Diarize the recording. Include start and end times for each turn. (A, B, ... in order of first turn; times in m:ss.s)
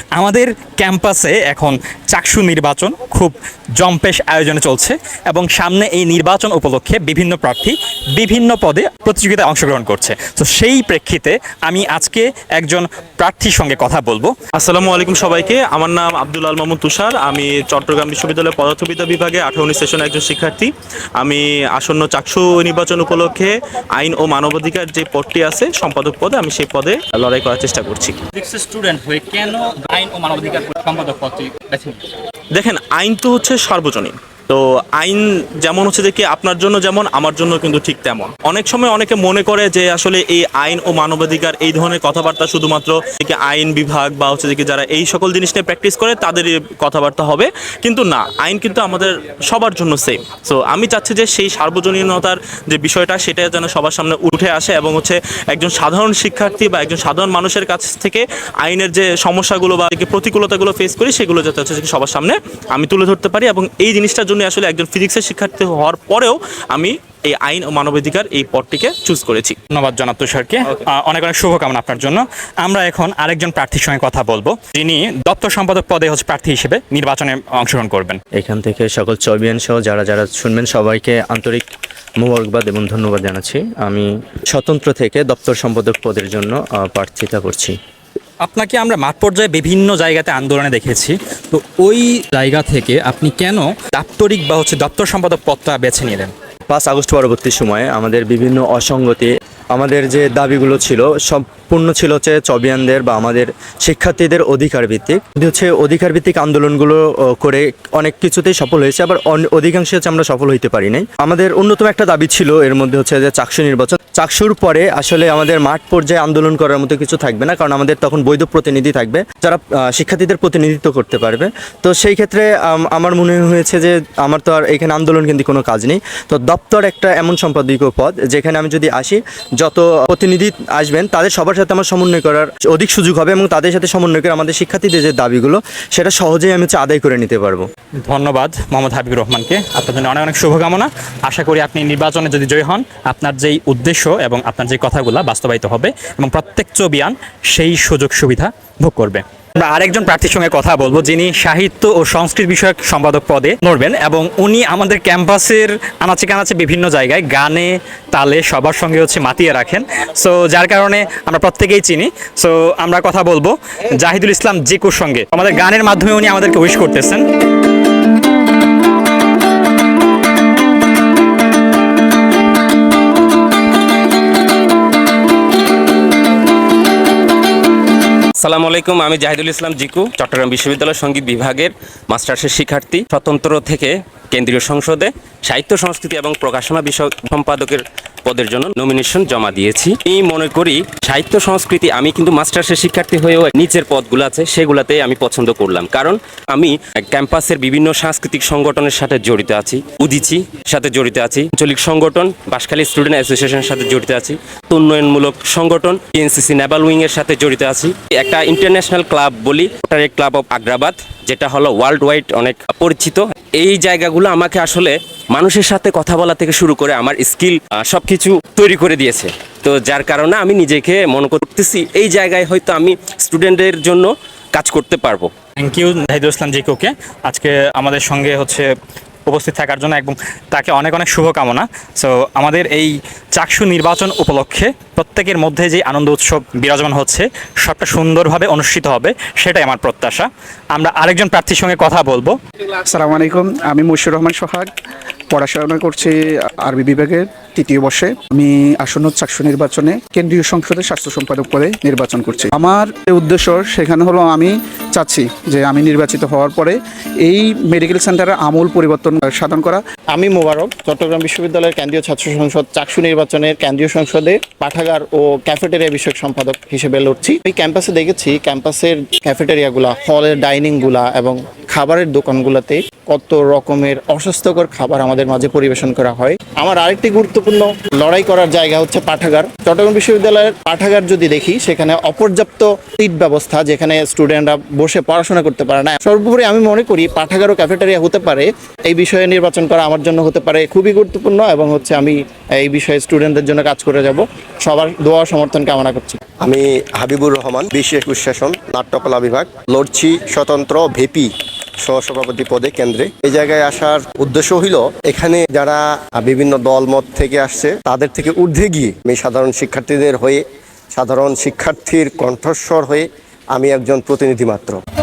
0:00.2-0:01.6 A
0:01.0-0:01.7 B
0:02.1-0:14.4 A
0:02.3-0:03.2 B
0:03.9-0:04.3 B
0:05.8-0:06.3 B
0:14.6-0:28.2 B
0:28.3-0:32.0 A
0:32.6-1:12.0 B
1:09.8-1:18.2 A
1:12.8-1:13.4 B
1:14.3-1:15.0 B
1:16.0-1:16.6 B
1:18.4-1:21.6 C
1:22.2-1:27.8 C
1:28.4-1:35.6 A
1:28.7-1:31.0 B
1:32.5-1:36.3 B
1:36.7-2:17.6 C
2:18.1-2:28.3 B
2:18.6-2:19.8 A
2:22.9-2:23.7 A
2:25.8-2:27.0 A
2:27.8-2:34.8 A
2:29.0-2:31.0 B
2:31.6-2:35.7 B
2:35.4-2:37.4 A
2:36.3-2:37.7 B
2:38.2-2:47.2 A
2:39.1-2:39.8 B
2:40.6-2:42.0 B
2:42.8-2:43.5 B
2:46.0-2:47.0 B
2:58.4-3:45.3 D
3:45.6-3:48.6 A
3:45.8-3:46.8 B
3:48.3-3:48.6 B
3:49.3-3:51.5 A
3:49.8-3:50.1 B
3:50.7-3:51.6 B
3:52.0-3:52.4 A
3:52.4-3:52.9 B
3:53.3-4:02.3 A
3:56.5-3:57.1 B
3:57.9-3:59.1 B
3:59.6-4:00.3 B
4:00.9-4:02.1 B
4:02.9-4:04.7 E
4:05.3-4:19.8 E
4:20.1-4:56.2 F
4:56.4-5:01.3 G
5:01.8-5:10.4 G
5:11.0-5:14.8 G